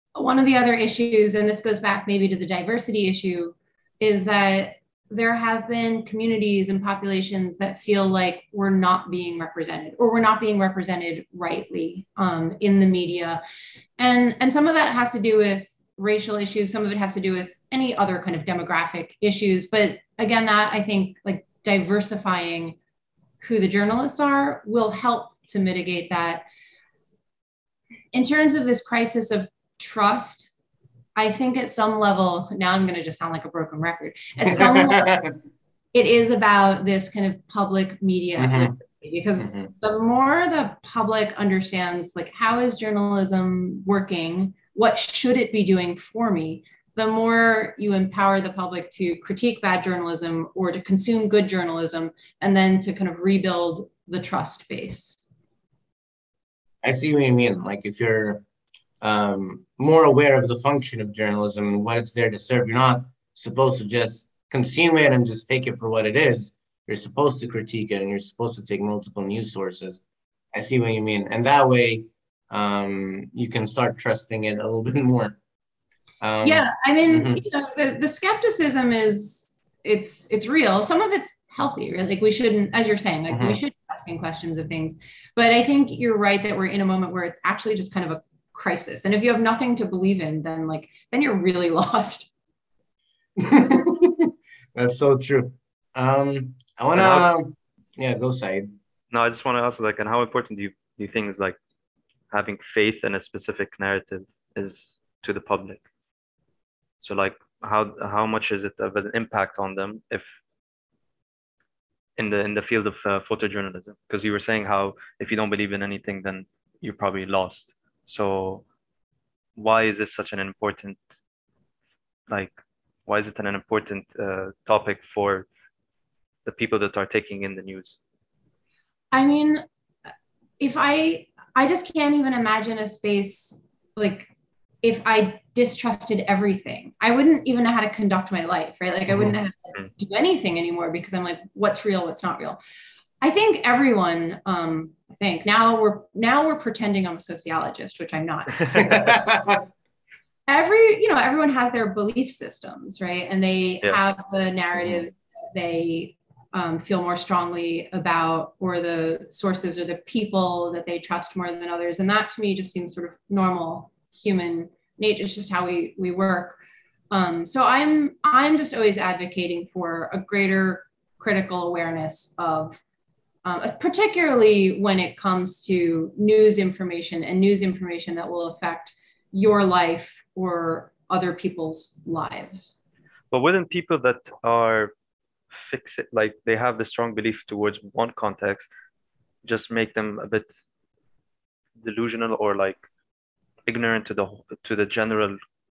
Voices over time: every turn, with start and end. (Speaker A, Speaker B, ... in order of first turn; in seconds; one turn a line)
Speaker A: 0.1-13.4
Speaker A: 14.0-22.8
Speaker A: 23.4-26.4
Speaker A: 28.1-30.5
Speaker A: 31.1-35.1
Speaker B: 34.5-35.3
Speaker A: 35.9-55.2
Speaker B: 38.4-38.7
Speaker B: 39.4-39.7
Speaker B: 56.8-58.4
Speaker B: 59.0-70.0
Speaker B: 70.5-75.3
Speaker B: 76.2-77.4
Speaker A: 76.4-92.3
Speaker B: 83.3-83.6
Speaker B: 93.4-98.7
Speaker C: 96.9-97.3
Speaker C: 99.1-101.6
Speaker C: 102.3-105.8
Speaker C: 107.0-110.2
Speaker C: 112.2-118.6
Speaker C: 119.5-121.0
Speaker C: 122.3-122.5
Speaker C: 123.0-125.5
Speaker C: 126.5-128.0
Speaker A: 129.1-129.6
Speaker A: 130.6-134.3
Speaker A: 134.8-142.6
Speaker B: 139.1-139.3
Speaker A: 143.2-149.1
Speaker B: 148.7-149.6
Speaker A: 150.5-166.6
Speaker B: 154.8-155.0
Speaker A: 167.1-172.8
Speaker A: 173.4-182.8
Speaker C: 183.3-184.9
Speaker C: 185.5-188.7
Speaker C: 189.4-190.6
Speaker C: 191.8-192.8
Speaker C: 193.7-195.3